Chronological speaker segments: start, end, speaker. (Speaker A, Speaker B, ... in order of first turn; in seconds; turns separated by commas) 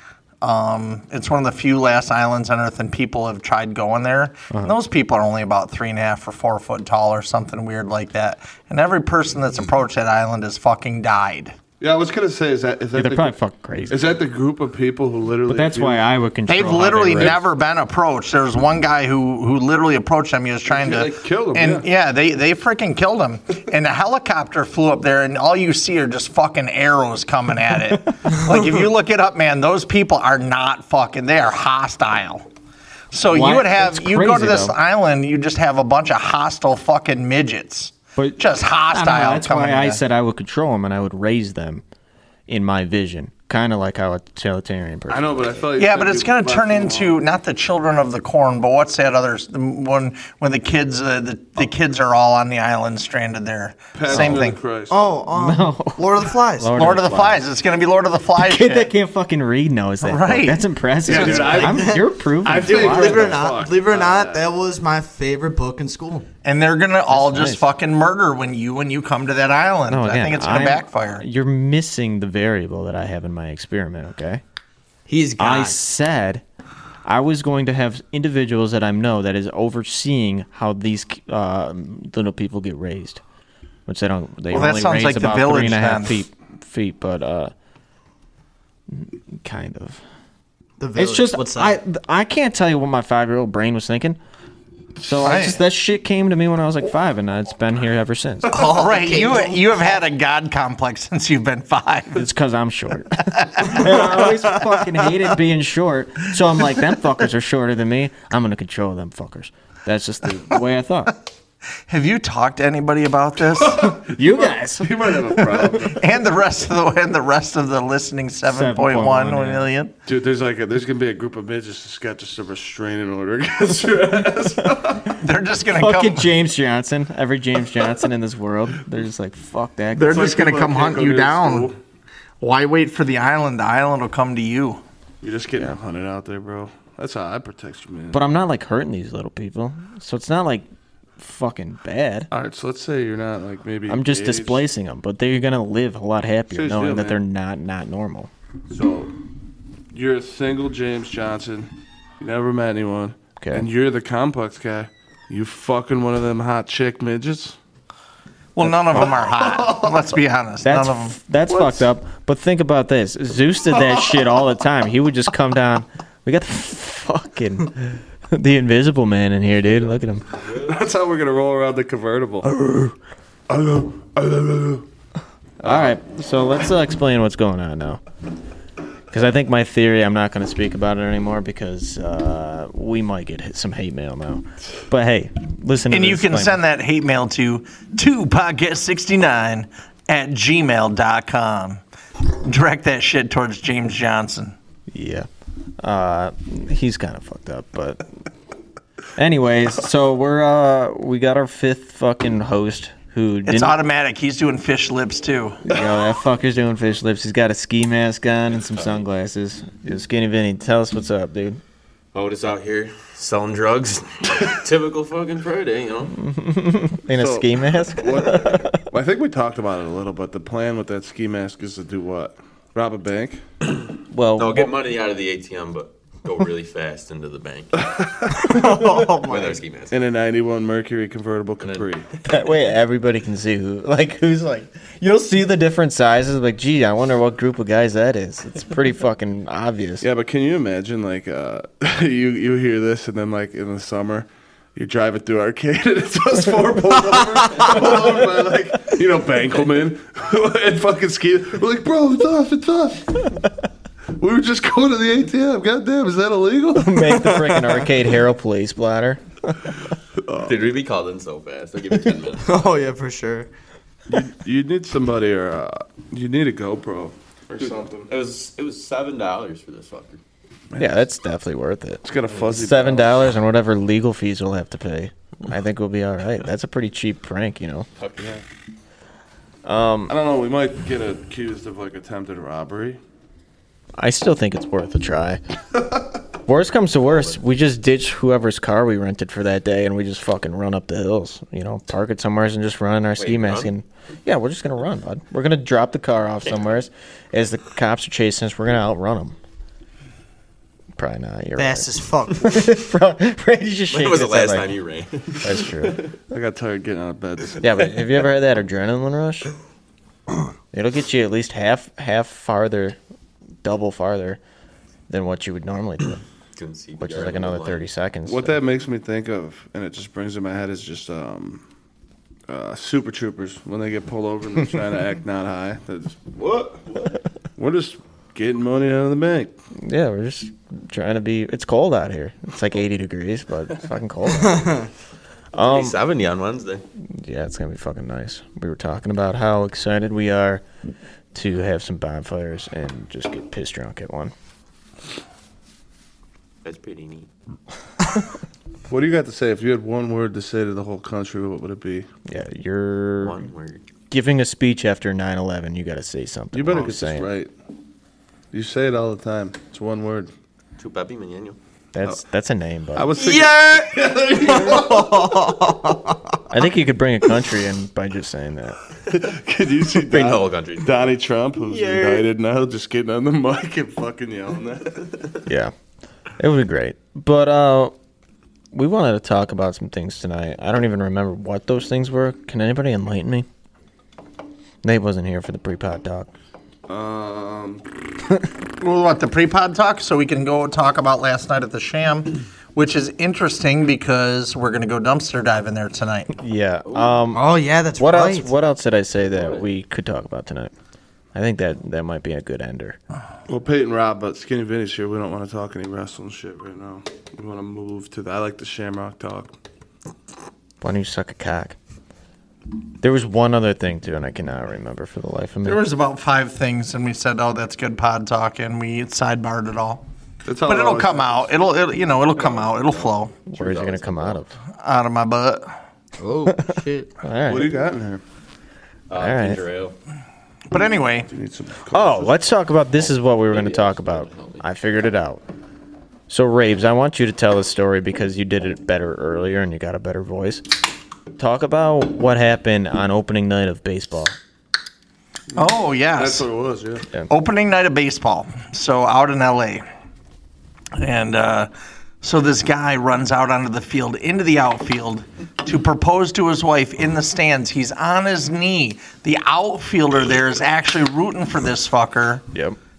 Speaker A: 0.4-11.6, Speaker B: 11.8-13.3, Speaker C: 12.9-14.0, Speaker B: 13.9-16.0, Speaker C: 15.5-17.4, Speaker A: 16.5-32.5, Speaker B: 20.7-21.9, Speaker A: 33.1-40.0, Speaker C: 33.3-34.8, Speaker C: 38.2-41.8, Speaker C: 42.5-45.5, Speaker B: 45.1-47.2, Speaker A: 45.8-54.6, Speaker B: 53.9-54.9, Speaker C: 54.1-54.5, Speaker D: 54.9-56.8, Speaker C: 55.3-57.5, Speaker A: 56.8-58.9, Speaker C: 58.4-63.4, Speaker A: 60.0-60.6, Speaker B: 61.0-64.5, Speaker D: 61.1-66.3, Speaker A: 66.4-71.2, Speaker C: 67.1-67.7, Speaker C: 69.9-74.4, Speaker D: 75.1-75.8, Speaker C: 75.4-76.4, Speaker C: 77.0-83.2, Speaker C: 83.9-87.5, Speaker A: 84.5-86.2, Speaker C: 88.9-90.0, Speaker D: 90.8-91.8, Speaker C: 91.0-94.2, Speaker C: 95.0-98.6, Speaker A: 95.2-95.6, Speaker D: 98.5-99.5, Speaker B: 98.7-99.3, Speaker A: 98.7-102.3, Speaker C: 102.2-111.1, Speaker A: 111.9-113.8, Speaker B: 113.6-116.0, Speaker C: 114.0-115.6, Speaker A: 115.8-119.9, Speaker C: 118.5-119.7, Speaker B: 120.1-125.1, Speaker A: 125.2-126.3, Speaker C: 125.7-130.4, Speaker A: 129.9-131.7, Speaker B: 130.0-131.8, Speaker A: 132.4-134.8, Speaker B: 135.2-138.2, Speaker C: 138.1-140.7, Speaker C: 141.2-142.3, Speaker B: 142.3-144.6, Speaker C: 143.9-148.3, Speaker B: 146.5-147.2, Speaker B: 148.7-149.1, Speaker B: 149.9-157.6, Speaker C: 153.4-153.7, Speaker A: 158.6-161.2, Speaker C: 158.6-159.1, Speaker B: 158.9-160.1, Speaker C: 160.6-170.3, Speaker B: 161.5-161.9, Speaker B: 163.8-164.2, Speaker B: 170.5-172.6, Speaker C: 172.6-172.9, Speaker B: 173.5-174.8, Speaker B: 175.6-175.9, Speaker C: 175.6-178.0, Speaker C: 179.1-186.6, Speaker A: 185.9-191.8, Speaker A: 192.4-194.6, Speaker C: 194.9-195.3, Speaker C: 195.8-198.0, Speaker C: 199.2-203.8, Speaker A: 203.5-205.6, Speaker C: 205.7-211.6, Speaker E: 212.1-216.2, Speaker C: 216.1-218.8, Speaker B: 217.2-223.4, Speaker C: 224.1-224.7, Speaker E: 224.4-227.9, Speaker D: 228.3-229.6, Speaker E: 228.6-229.9, Speaker B: 229.9-232.1, Speaker E: 231.6-231.9, Speaker C: 232.3-240.1, Speaker B: 240.0-253.3, Speaker B: 254.2-257.7, Speaker C: 256.8-259.5, Speaker B: 260.2-260.5, Speaker E: 260.4-262.5, Speaker D: 262.4-263.5, Speaker B: 264.1-268.1, Speaker E: 267.5-270.2, Speaker C: 270.8-277.9, Speaker B: 272.0-273.3, Speaker E: 278.0-278.4, Speaker C: 279.6-280.1, Speaker B: 280.1-283.0, Speaker C: 284.0-285.4, Speaker C: 286.5-299.4, Speaker E: 293.2-293.7, Speaker C: 301.0-304.7, Speaker D: 301.6-302.8, Speaker E: 303.9-305.6, Speaker C: 305.4-306.0, Speaker B: 306.3-307.6, Speaker C: 307.6-309.5, Speaker C: 310.7-313.0, Speaker C: 313.6-314.4, Speaker C: 315.1-316.2, Speaker E: 316.6-317.9, Speaker C: 317.0-318.6, Speaker B: 318.3-321.6, Speaker B: 322.5-326.8, Speaker B: 327.6-329.5, Speaker C: 329.8-334.8, Speaker D: 334.6-334.9, Speaker C: 335.5-336.0, Speaker E: 335.6-336.9, Speaker C: 337.1-340.6, Speaker C: 341.3-344.3, Speaker E: 346.6-347.3, Speaker B: 348.9-352.1, Speaker C: 352.3-353.5, Speaker E: 353.2-353.8, Speaker C: 354.1-357.3, Speaker B: 356.5-357.5, Speaker B: 358.5-360.3, Speaker E: 360.8-361.6, Speaker C: 361.9-363.2, Speaker B: 362.9-365.5, Speaker D: 364.5-366.2, Speaker C: 366.5-368.8, Speaker B: 369.1-375.4, Speaker E: 369.9-371.1, Speaker C: 375.5-375.7, Speaker C: 376.4-377.9, Speaker C: 378.7-383.5, Speaker C: 384.8-386.3, Speaker B: 386.9-387.8, Speaker A: 388.8-396.3, Speaker C: 396.3-400.7, Speaker E: 396.9-397.2, Speaker D: 397.3-398.5, Speaker E: 399.3-399.6, Speaker C: 401.3-403.0, Speaker B: 403.5-409.5, Speaker C: 410.8-411.8, Speaker C: 413.0-415.9, Speaker A: 415.6-420.0, Speaker B: 420.4-421.5, Speaker A: 420.6-423.3, Speaker E: 422.4-424.4, Speaker C: 423.5-424.6, Speaker A: 424.8-425.7, Speaker D: 426.2-427.1, Speaker C: 427.2-427.7, Speaker B: 427.5-428.2, Speaker E: 429.1-429.9, Speaker C: 429.1-429.6, Speaker A: 430.7-431.3, Speaker B: 431.3-432.3, Speaker C: 431.9-435.4, Speaker E: 433.5-434.6, Speaker C: 436.3-440.8, Speaker C: 441.4-444.4, Speaker B: 445.6-447.1, Speaker A: 445.6-446.5, Speaker A: 447.3-449.9, Speaker A: 450.9-451.7, Speaker A: 452.2-462.4